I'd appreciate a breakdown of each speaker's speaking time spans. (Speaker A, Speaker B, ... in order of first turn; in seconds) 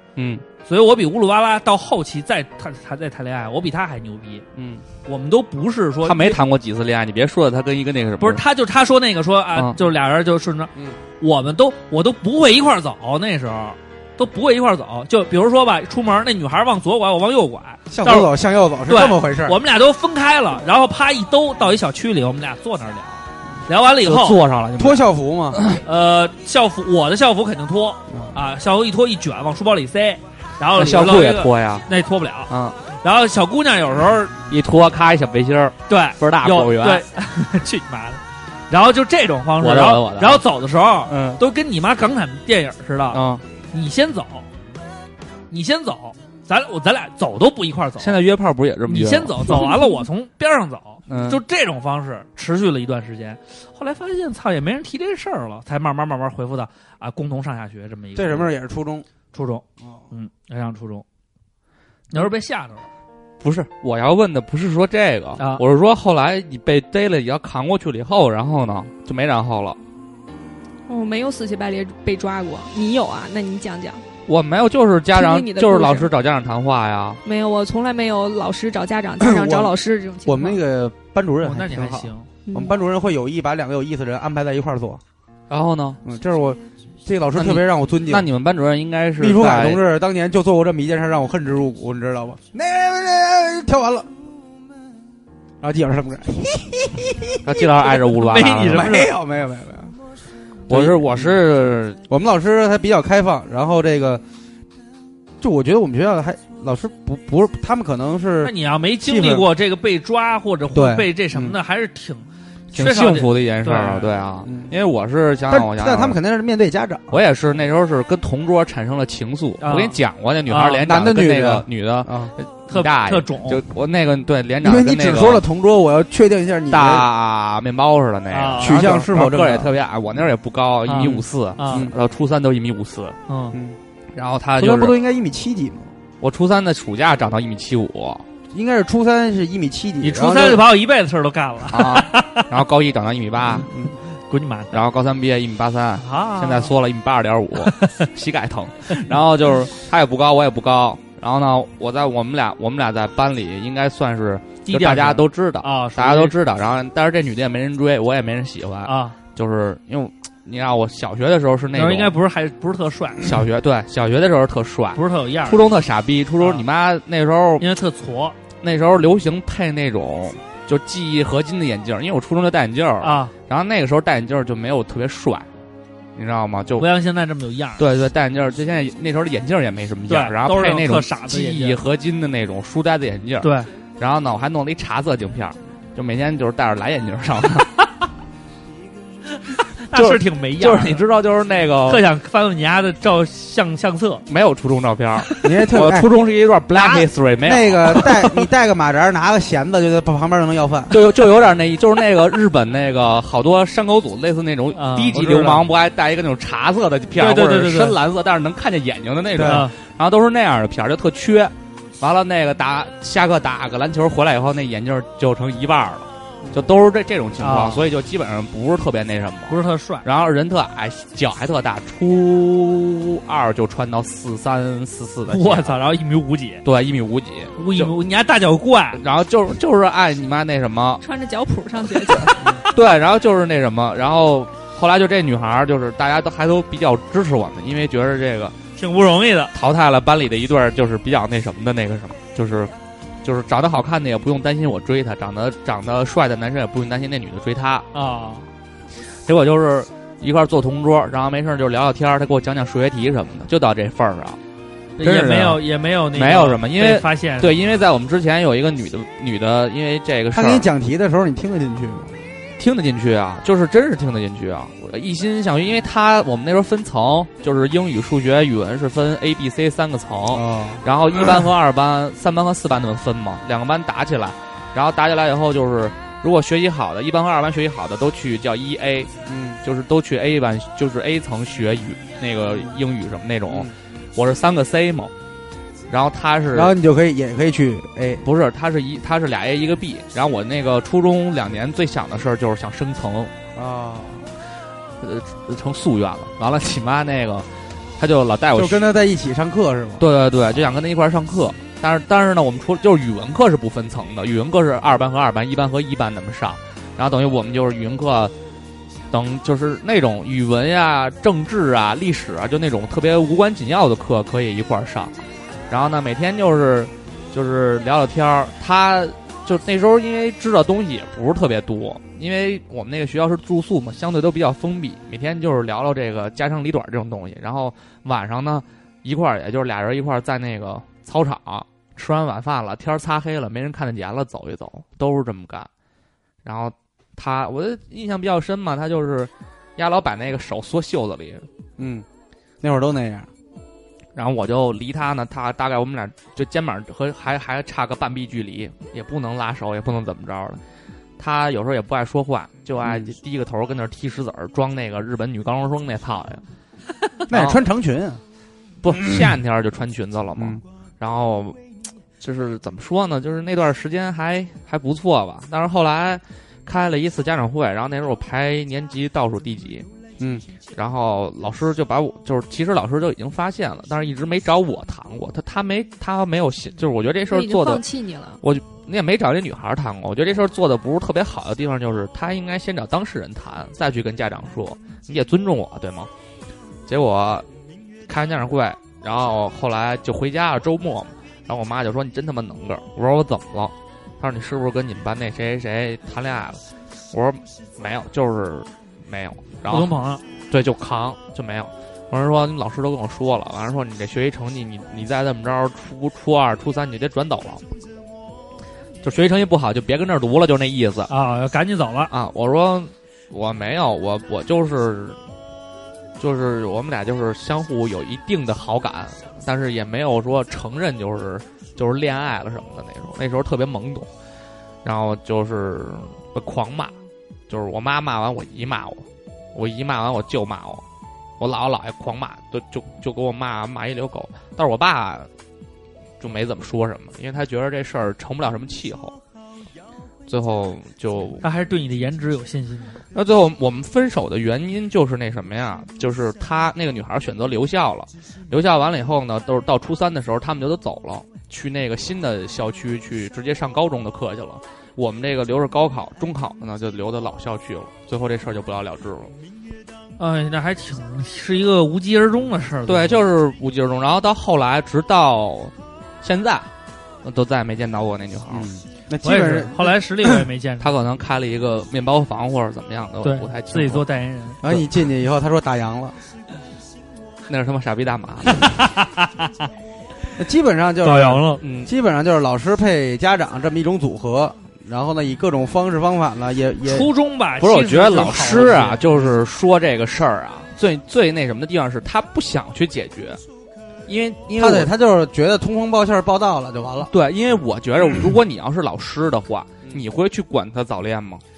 Speaker A: 0.2-0.4, 4.6-4.8, 6.0-8.4, 24.0-25.8, 30.7-31.9, 32.5-32.8, 34.5-37.0, 39.6-40.4, 41.1-41.4, 43.1-43.4, 48.0-49.7, 51.1-51.4, 63.4-69.8, 74.3-77.2, 85.5-86.0, 87.3-89.8, 97.5-99.0, 100.7-102.0, 112.7-116.2, 117.1-125.4, 126.7-133.2, 134.2-134.9, 136.2-138.2, 141.7-143.7, 144.7-162.1, 163.2-167.7, 168.6-175.5, 176.2-176.9, 177.8-187.7, 189.9-192.1, 194.3-198.3, 200.9-225.8, 226.6-227.9, 228.9-231.0, 232.3-238.6, 239.5-242.7, 243.2-247.9, 249.3-254.4, 255.0-255.6, 256.1-260.7, 262.6-279.1, 279.6-285.1, 285.9-286.7, 288.2-293.3, 295.0-297.5, 298.0-298.9, 300.0-308.3, 309.1-315.2, 315.7-335.7, 336.4-341.4, 344.1-350.6, 351.2-356.4, 357.3-357.6, 358.8-361.6, 362.2-369.9, 370.8-377.8, 378.4-386.1, 386.9-387.5, 388.1-399.9, 400.5-407.6, 409.0-411.1, 412.1-415.2, 416.2-424.1, 424.8-426.9, 427.5-430.8, 431.4-435.3, 436.2-439.1, 440.3-441.4, 443.1-459.3, 462.9-466.7, 467.2-468.7, 470.8-474.1, 477.5-478.8, 481.6-481.9, 487.6-493.4, 494.1-494.9, 497.1-501.4
Speaker B: 0.6-4.5, 5.0-6.4, 8.2-18.3, 18.9-24.4, 25.8-34.4, 35.9-44.5, 45.5-48.2, 48.9-58.5, 59.3-61.0, 62.1-62.9, 65.4-65.6, 81.4-82.3, 98.1-99.1, 108.4-114.1, 119.6-120.8, 122.7-123.6, 128.3-129.0, 130.8-131.9, 133.3-133.6, 140.0-142.5, 144.2-144.8, 146.0-146.7, 147.6-148.1, 154.7-156.4, 158.8-159.2, 161.7-163.3, 164.9-165.6, 166.4-166.7, 167.6-168.4, 173.0-173.3, 176.8-177.8, 180.1-181.8, 183.4-183.7, 189.5-191.1, 191.9-194.2, 204.7-205.6, 207.2-208.0, 209.4-209.8, 217.4-217.8, 219.5-220.1, 225.3-226.6, 227.6-229.0, 238.8-239.5, 247.9-248.5, 255.0-257.6, 399.7-400.2, 411.1-412.1, 441.4-443.0, 460.2-463.2, 469.2-470.9, 473.2-474.6, 478.7-479.5, 481.0-481.6, 486.9-489.0
Speaker C: 17.9-19.6, 24.8-25.6, 58.1-59.1, 79.2-85.0, 86.0-88.3, 89.2-94.1, 95.6-97.7, 98.7-100.0, 100.7-101.4, 102.1-104.2, 105.4-109.5, 110.7-111.6, 114.5-114.7, 115.5-117.2, 120.8-122.3, 124.6-127.1, 128.6-129.7, 130.9-131.9, 133.5-133.8, 134.6-135.9, 138.5-140.7, 143.5-143.9, 195.4-196.1, 196.8-201.0, 209.3-209.7, 260.3-262.2, 270.3-271.4, 279.3-279.6, 286.5-288.2, 293.6-294.3, 298.5-300.1, 341.8-342.1, 342.6-343.3, 352.8-353.1, 357.3-358.2, 358.9-359.3, 360.4-360.6, 370.2-370.4, 468.5-469.9, 474.6-476.1, 480.4-487.1, 494.6-497.1
Speaker D: 70.9-74.0, 75.1-76.1, 77.2-80.6, 82.5-82.8, 231.0-232.4, 377.3-378.4